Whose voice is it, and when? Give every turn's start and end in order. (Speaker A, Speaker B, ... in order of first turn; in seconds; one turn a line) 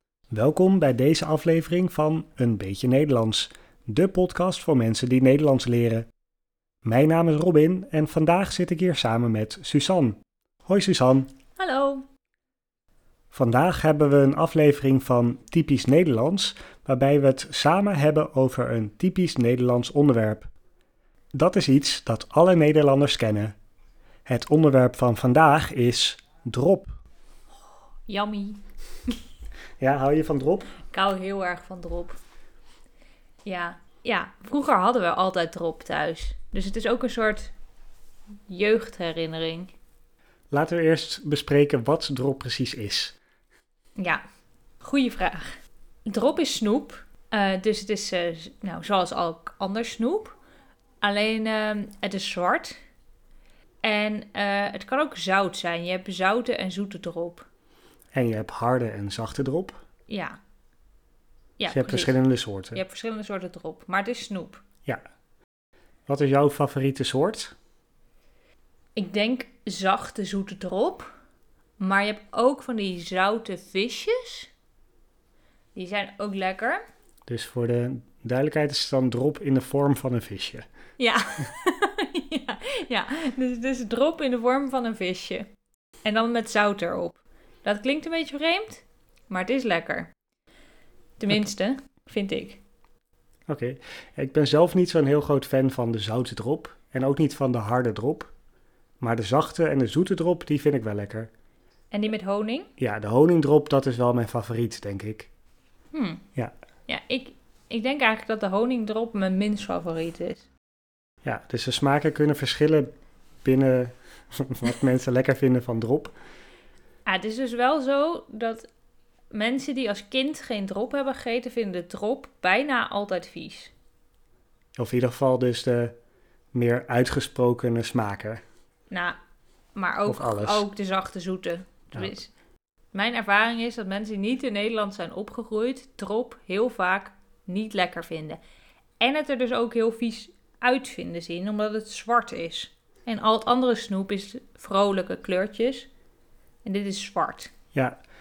Speaker A: 0.3-6.1
Speaker A: 6.8-11.3
Speaker B: 11.6-12.1
Speaker A: 13.3-20.5
Speaker A: 21.3-23.6
Speaker A: 24.3-26.9
Speaker B: 28.1-29.1
Speaker A: 29.8-30.8
Speaker B: 30.9-32.2
Speaker B: 33.5-37.5
Speaker B: 38.5-39.7
Speaker A: 40.5-43.1
Speaker B: 44.0-44.2
Speaker B: 44.8-50.4
Speaker B: 51.0-52.8
Speaker B: 53.8-57.5
Speaker A: 58.1-59.8
Speaker B: 60.1-60.4
Speaker B: 61.6-62.2
Speaker A: 61.7-62.8
Speaker B: 62.7-64.6
Speaker A: 66.1-67.5
Speaker B: 69.0-71.1
Speaker B: 71.8-74.5
Speaker B: 75.8-76.8
Speaker A: 77.3-80.7
Speaker B: 81.0-85.5
Speaker B: 86.0-90.1
Speaker B: 91.2-92.6
Speaker A: 93.5-98.3
Speaker A: 99.0-101.3
Speaker B: 101.9-102.7
Speaker A: 102.8-105.3
Speaker B: 105.9-106.2
Speaker B: 106.9-110.5
Speaker A: 111.2-112.9
Speaker A: 113.4-116.2
Speaker B: 117.1-118.7
Speaker B: 119.3-123.7
Speaker A: 124.8-126.0
Speaker A: 126.5-128.4
Speaker B: 128.9-129.2
Speaker B: 129.7-132.3
Speaker A: 130.1-130.7
Speaker B: 132.9-138.4
Speaker B: 139.0-145.9
Speaker B: 146.6-147.5